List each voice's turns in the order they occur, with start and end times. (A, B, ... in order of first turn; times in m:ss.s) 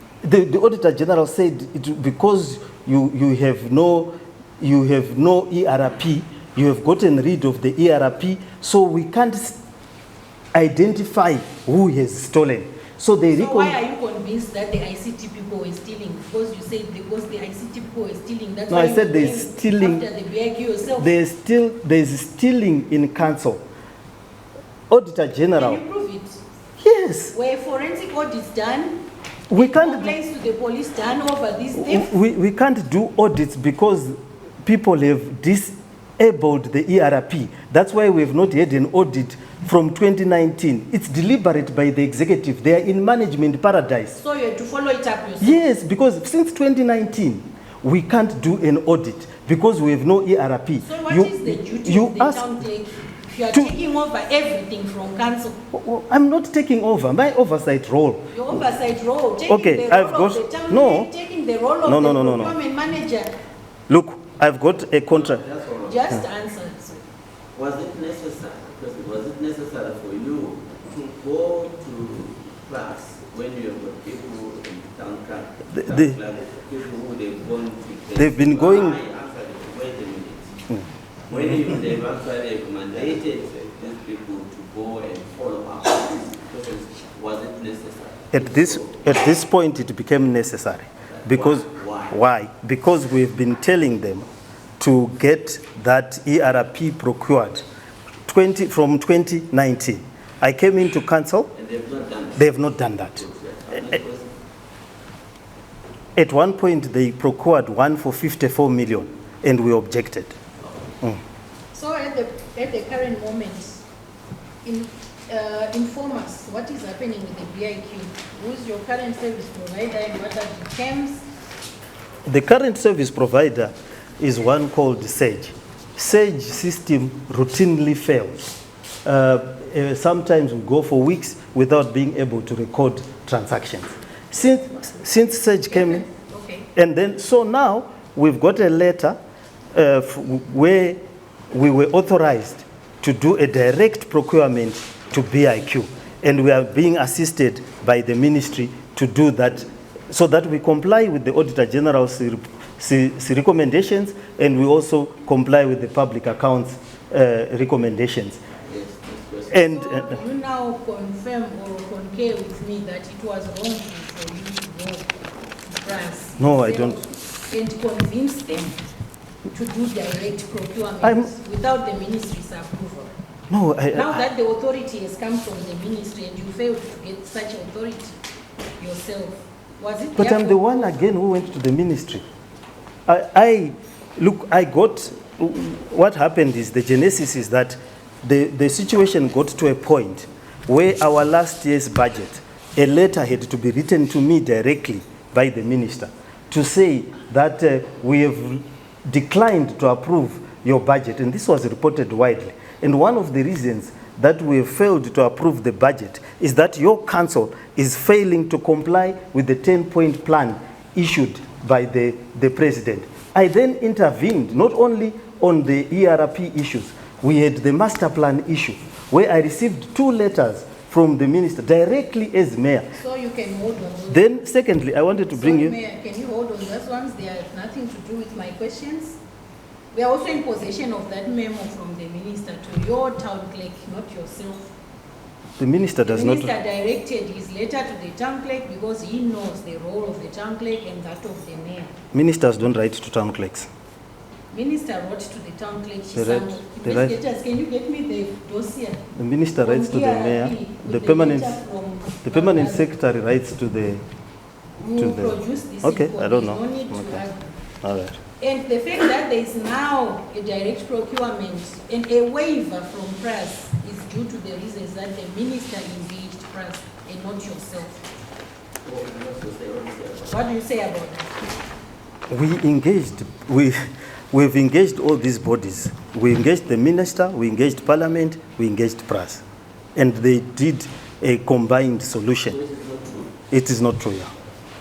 0:00.2-0:09.6 A
0:10.5-0:13.8 A
0:13.3-0:21.2 B
0:18.7-0:20.0 A
0:21.0-0:23.6 A
0:24.9-0:25.8 A
0:25.5-0:26.4 B
0:26.8-0:27.3 A
0:27.3-0:32.1 B
0:29.5-0:30.1 A
0:31.7-0:44.2 A
0:44.1-0:45.7 B
0:45.4-0:52.6 A
0:50.8-0:55.6 B
0:55.7-0:58.3 A
0:58.3-1:03.4 B
0:59.5-1:01.1 A
1:01.8-1:02.6 A
1:03.9-1:05.4 A
1:05.1-1:06.2 C
1:05.8-1:07.0 B
1:07.5-1:20.6 C
1:15.7-1:16.2 A
1:18.2-1:19.0 A
1:21.3-1:29.1 C
1:28.3-1:34.3 A
1:31.1-1:32.1 C
1:34.8-1:37.6 A
1:38.3-1:41.5 A
1:41.5-1:44.4 C
1:42.4-1:43.2 A
1:46.2-1:50.4 A
1:51.7-1:53.8 B
1:54.6-2:01.2 B
2:02.2-2:08.5 A
2:09.0-2:16.0 A
2:15.7-2:16.7 B
2:16.7-2:19.2 A
2:19.7-2:21.0 A
2:21.5-2:38.4 A
2:38.6-2:39.6 C
2:39.5-2:40.2 A
2:39.5-2:45.1 B
2:45.7-2:48.8 B
2:46.4-2:47.0 A
2:49.5-2:53.1 B
2:51.0-2:51.3 A
2:53.5-2:54.2 A
2:53.9-2:58.2 B
2:58.8-3:00.8 B
3:00.2-3:02.2 A
3:03.1-3:42.9 A
3:43.0-3:44.3 B
3:44.1-3:45.7 A
3:45.3-3:49.2 B
3:49.9-3:54.7 B
3:55.6-3:56.5 A
3:56.0-4:01.9 B
4:02.1-4:03.7 A
4:04.5-4:09.0 B
4:06.1-4:07.2 A
4:09.2-4:11.6 A
4:09.6-4:13.0 B
4:12.2-4:14.0 A
4:14.8-4:17.5 B
4:15.0-4:17.2 A
4:17.8-4:18.2 A
4:18.4-4:28.0 B
4:28.8-4:30.4 C
4:30.3-4:31.3 B
4:32.3-4:33.8 A
4:34.3-4:39.4 A
4:40.0-4:42.6 A
4:42.4-4:43.4 C
4:43.5-4:44.3 A